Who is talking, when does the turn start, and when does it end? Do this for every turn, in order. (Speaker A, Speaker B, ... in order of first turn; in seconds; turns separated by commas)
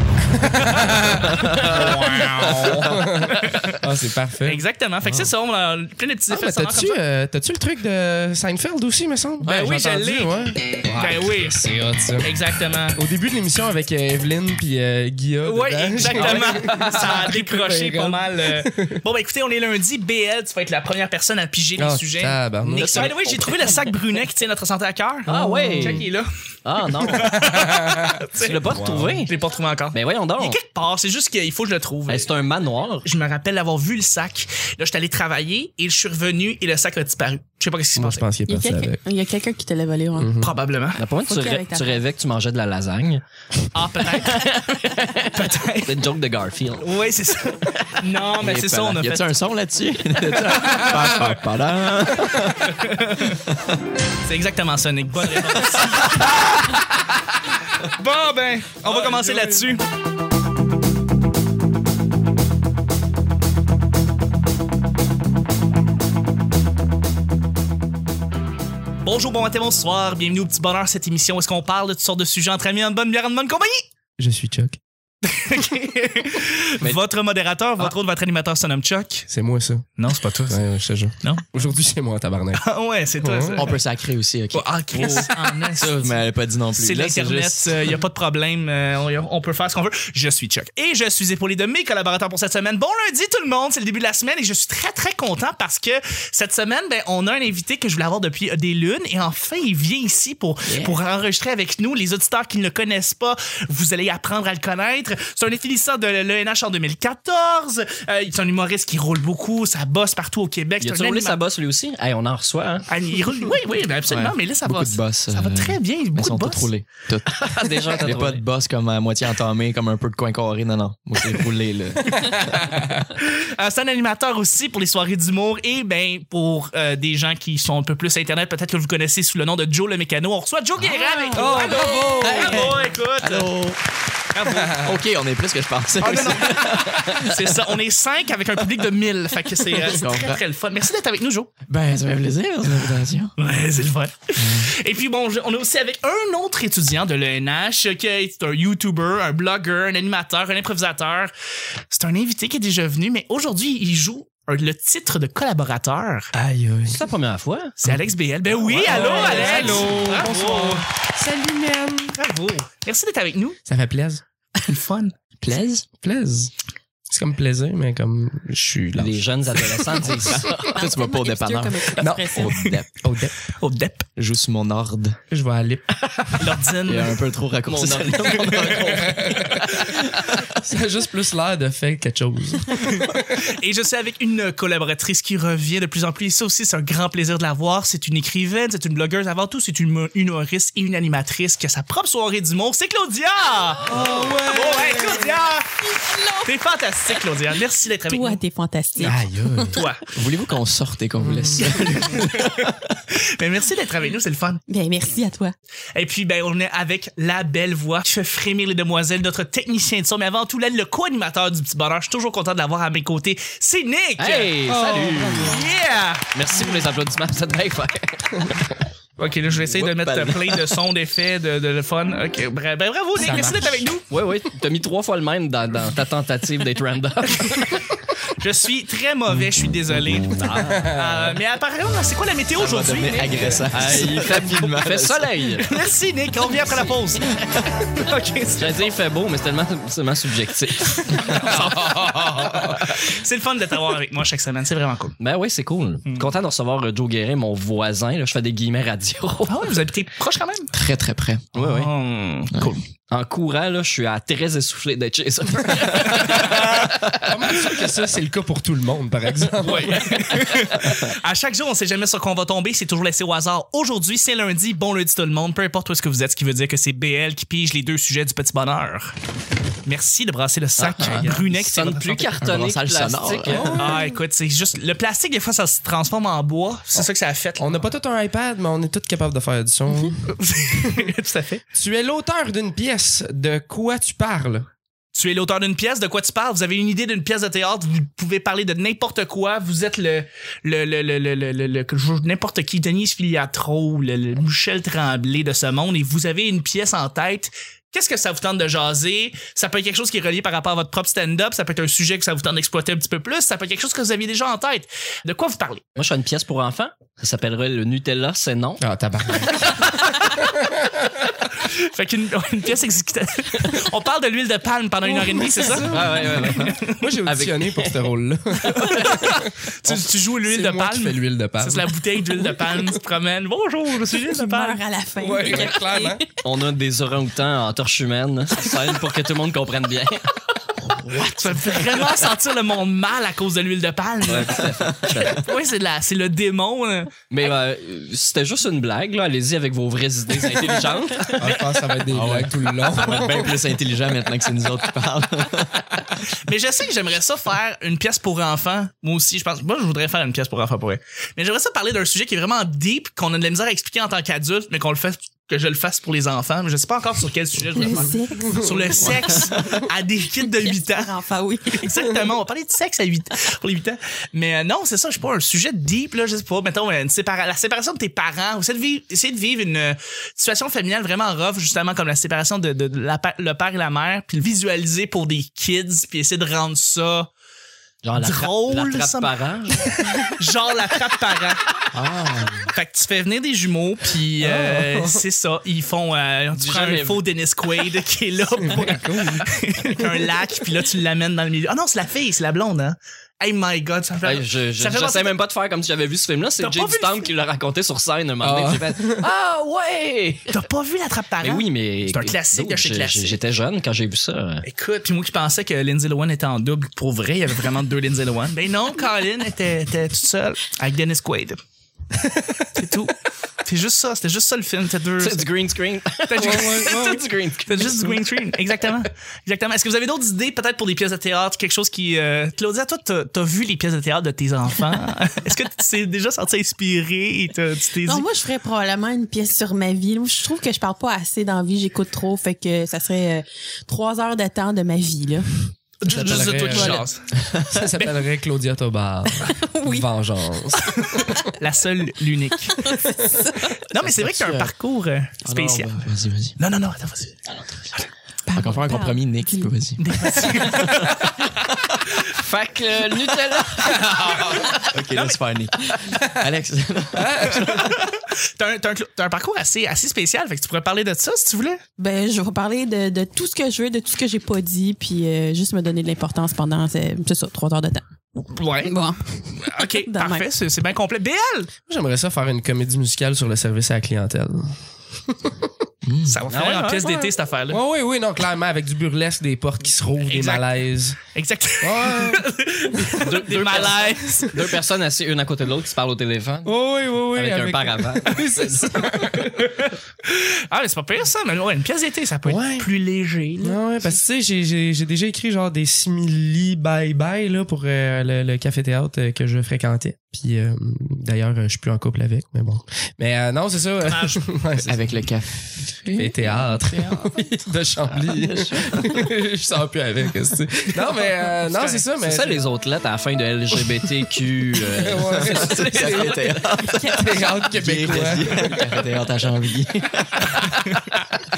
Speaker A: 0.3-4.6, Speaker B: 1.4-2.0, Speaker C: 1.4-3.8, Speaker C: 4.4-7.0, Speaker B: 5.0-5.3, Speaker A: 6.3-12.3, Speaker B: 9.4-9.7, Speaker C: 9.4-10.4, Speaker C: 10.9-11.6, Speaker C: 12.2-13.0, Speaker A: 12.9-19.0, Speaker C: 15.4-26.3, Speaker D: 16.2-17.1, Speaker A: 21.8-23.4, Speaker D: 22.8-23.1, Speaker D: 25.3-26.1, Speaker A: 25.3-26.1, Speaker D: 26.6-27.6, Speaker C: 27.0-32.3, Speaker A: 27.3-28.1, Speaker D: 28.4-29.3, Speaker D: 29.9-30.6, Speaker D: 32.1-33.1, Speaker C: 33.0-38.2, Speaker A: 38.0-39.0, Speaker E: 38.5-40.3, Speaker A: 40.2-40.5, Speaker C: 40.4-41.0, Speaker D: 41.0-43.2, Speaker E: 41.3-42.0, Speaker C: 43.7-46.1, Speaker D: 44.2-46.9, Speaker C: 46.8-49.4, Speaker B: 48.4-52.7, Speaker C: 52.6-53.4, Speaker B: 53.5-53.8, Speaker C: 54.3-56.8, Speaker B: 56.0-56.2, Speaker C: 57.9-59.8, Speaker A: 58.9-59.7, Speaker C: 69.0-73.8, Speaker A: 74.2-74.8, Speaker C: 75.2-79.3, Speaker A: 79.3-79.9, Speaker C: 80.0-80.6, Speaker A: 80.5-82.6, Speaker C: 82.6-83.8, Speaker A: 83.2-83.7, Speaker B: 83.6-87.9, Speaker C: 84.5-86.2, Speaker D: 85.0-85.2, Speaker C: 86.7-111.4, Speaker B: 100.7-101.0, Speaker D: 110.8-112.8, Speaker C: 112.9-116.7, Speaker B: 114.1-122.6, Speaker D: 117.3-118.4, Speaker C: 122.0-122.4, Speaker C: 123.1-133.5, Speaker E: 131.2-131.6, Speaker A: 131.3-132.9, Speaker B: 132.2-133.8, Speaker C: 134.3-134.9, Speaker B: 134.8-137.4, Speaker C: 136.0-141.5, Speaker B: 139.8-140.4, Speaker B: 141.7-143.3, Speaker C: 143.4-151.3, Speaker B: 144.4-144.7, Speaker C: 151.9-156.3, Speaker A: 156.3-157.0, Speaker D: 156.9-157.8, Speaker C: 157.8-160.8, Speaker A: 158.8-162.2, Speaker C: 162.2-163.6, Speaker A: 163.7-164.2, Speaker C: 164.6-165.2, Speaker B: 165.4-165.8, Speaker A: 166.0-166.5, Speaker A: 167.1-170.5, Speaker D: 168.9-170.5, Speaker B: 170.3-172.9, Speaker E: 170.7-172.7, Speaker A: 172.0-173.3, Speaker C: 173.5-174.1, Speaker B: 174.2-175.2, Speaker A: 175.3-176.6, Speaker C: 176.4-177.2, Speaker B: 176.8-180.6, Speaker D: 177.7-180.1, Speaker A: 179.1-179.7, Speaker A: 180.6-183.4, Speaker C: 182.8-195.8, Speaker A: 193.9-195.4, Speaker E: 196.0-196.5, Speaker C: 196.4-198.4, Speaker E: 198.1-199.8, Speaker A: 199.0-199.8, Speaker C: 199.7-200.0, Speaker B: 200.1-203.0, Speaker A: 201.2-201.7, Speaker C: 201.6-204.6, Speaker E: 204.7-205.5, Speaker C: 205.9-214.6, Speaker D: 214.2-215.6, Speaker A: 214.7-215.6, Speaker C: 215.3-216.3, Speaker D: 216.3-218.6, Speaker C: 219.2-224.1, Speaker B: 219.7-220.7, Speaker A: 223.2-223.9, Speaker D: 224.1-227.8, Speaker C: 228.3-233.7, Speaker A: 230.4-231.4, Speaker B: 232.6-235.5, Speaker D: 233.7-235.7, Speaker C: 235.6-238.9, Speaker B: 237.2-237.8, Speaker D: 238.6-241.5, Speaker C: 241.1-245.2, Speaker A: 241.5-242.9, Speaker D: 245.2-249.7, Speaker C: 249.5-250.7, Speaker B: 250.7-251.6, Speaker D: 251.6-251.9, Speaker C: 251.6-252.8, Speaker B: 252.5-252.8, Speaker D: 253.1-257.6, Speaker A: 255.8-260.4, Speaker C: 259.6-269.1, Speaker C: 269.9-272.3, Speaker D: 270.8-273.8, Speaker B: 272.4-273.8, Speaker A: 273.5-274.1, Speaker C: 273.7-277.7, Speaker A: 277.6-281.1, Speaker C: 280.2-281.6, Speaker A: 281.7-284.7, Speaker C: 285.1-305.8, Speaker D: 306.0-308.8, Speaker A: 308.8-311.3, Speaker C: 311.6-317.1, Speaker A: 315.1-322.0, Speaker D: 315.9-317.6, Speaker C: 318.6-324.8, Speaker E: 324.2-326.3, Speaker A: 325.2-326.2, Speaker D: 326.4-330.3, Speaker B: 331.0-331.3, Speaker C: 331.2-337.2, Speaker D: 334.2-335.4, Speaker B: 334.6-335.4, Speaker D: 337.3-341.5, Speaker A: 341.4-343.6, Speaker C: 341.4-341.7, Speaker B: 342.1-346.1, Speaker C: 346.4-361.2, Speaker E: 357.8-359.4, Speaker A: 358.4-358.8, Speaker B: 359.0-359.6, Speaker E: 360.4-362.1, Speaker C: 361.7-377.3, Speaker D: 378.0-379.9, Speaker C: 378.2-381.7, Speaker B: 381.9-382.7, Speaker C: 382.7-395.3, Speaker A: 384.4-385.2, Speaker D: 386.5-387.2, Speaker A: 388.6-390.3, Speaker D: 394.2-400.6, Speaker C: 396.6-397.3, Speaker A: 398.4-399.3, Speaker C: 400.5-403.4, Speaker D: 401.4-404.6, Speaker C: 404.6-411.6, Speaker A: 412.2-412.7, Speaker C: 412.7-415.5, Speaker D: 415.2-418.2, Speaker C: 416.3-428.2, Speaker A: 416.4-417.2, Speaker E: 428.1-435.7, Speaker C: 436.0-437.3, Speaker A: 436.1-441.4, Speaker E: 436.3-437.1, Speaker B: 437.4-437.7, Speaker E: 439.4-440.1, Speaker E: 440.6-441.3, Speaker C: 441.6-442.9, Speaker E: 442.8-443.7, Speaker A: 442.9-443.3, Speaker C: 443.9-446.0, Speaker B: 444.1-444.7, Speaker B: 445.4-446.6, Speaker C: 446.6-448.1, Speaker E: 448.5-449.7, Speaker B: 448.5-450.0, Speaker C: 450.0-451.4, Speaker E: 450.3-450.6, Speaker D: 452.3-454.3, Speaker A: 453.9-454.7, Speaker C: 454.4-455.4, Speaker B: 454.9-457.9, Speaker A: 457.1-457.9, Speaker C: 457.5-461.8, Speaker E: 462.0-468.0, Speaker C: 468.4-469.0, Speaker E: 468.8-470.4, Speaker C: 469.6-471.7, Speaker A: 471.9-475.7, Speaker B: 476.1-476.4, Speaker C: 476.3-477.8, Speaker D: 476.5-477.3, Speaker A: 477.7-481.2, Speaker C: 480.2-480.7, Speaker C: 481.3-484.6, Speaker A: 481.8-482.4, Speaker D: 483.2-486.7, Speaker A: 486.6-489.7, Speaker D: 487.3-489.0, Speaker C: 489.4-493.8, Speaker A: 492.4-492.9, Speaker A: 493.6-505.2, Speaker C: 504.0-504.5, Speaker B: 504.8-507.3, Speaker A: 506.1-512.6, Speaker B: 508.2-509.2, Speaker C: 511.6-512.0, Speaker D: 512.2-516.4, Speaker A: 514.9-518.9, Speaker B: 515.3-520.9, Speaker E: 516.8-517.7, Speaker A: 520.5-521.2